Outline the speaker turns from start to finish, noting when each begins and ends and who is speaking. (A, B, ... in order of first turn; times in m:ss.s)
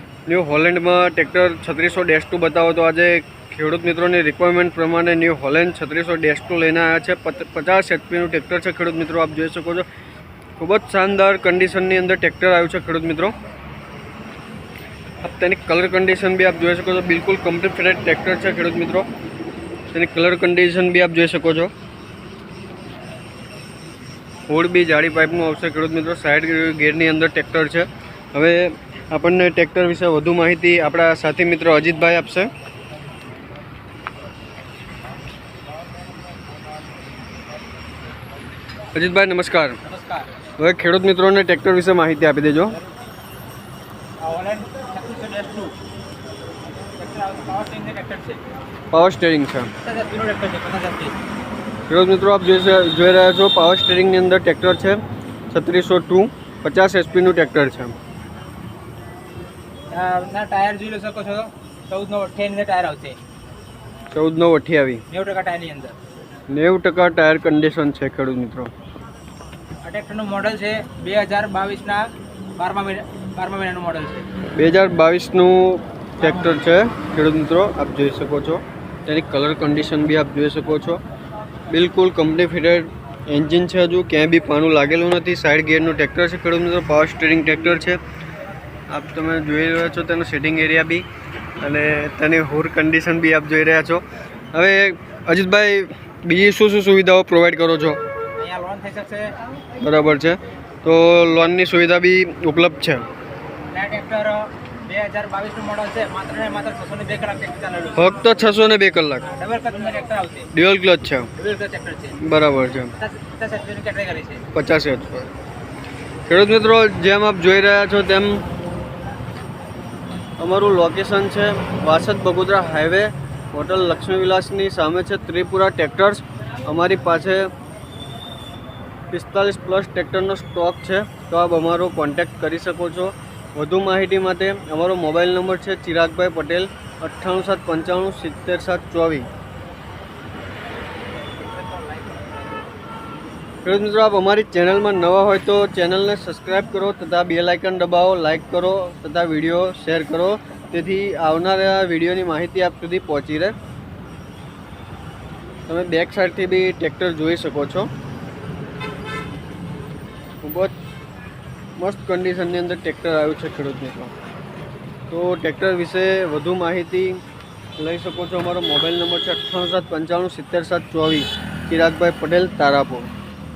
0:00.3-0:09.8 A
0:10.6-0:13.3 A
0:15.2-0:19.0 A
0:19.9-0:21.7 A
0:24.5-0:32.5 A
0:38.9-0:39.8 A
0:39.8-0:40.3 B
0:40.6-0:42.8 A
0:44.2-0:45.7 B
0:47.0-0:48.4 B
0:48.9-0:49.7 A
0:49.8-0:51.2 B
0:51.9-0:58.0 A
0:59.9-1:03.2 B
1:04.1-1:05.0 A
1:05.1-1:06.0 B
1:06.5-1:08.7 A
1:09.8-1:14.3 B
1:14.6-1:21.0 A
1:16.2-1:16.6 B
1:21.7-1:28.0 A
1:28.9-1:31.0 A
1:31.6-1:34.0 A
1:34.5-1:38.0 A
1:38.4-1:39.4 B
1:39.8-1:43.0 A
1:43.7-1:48.0 B
1:47.9-1:49.2 A
1:49.2-1:50.5 B
1:50.5-1:51.3 A
1:51.4-1:52.2 B
1:52.2-1:52.9 A
1:53.0-1:54.4 B
1:54.5-1:55.3 A
1:56.3-1:58.4 A
2:00.4-2:07.5 A
2:09.1-2:19.3 A
2:21.4-2:22.6 B
2:23.6-2:33.5 A
2:35.7-2:37.9 A
2:40.4-2:40.7 A
2:41.8-2:44.1 A
2:45.1-2:47.2 A
2:47.8-2:53.1 A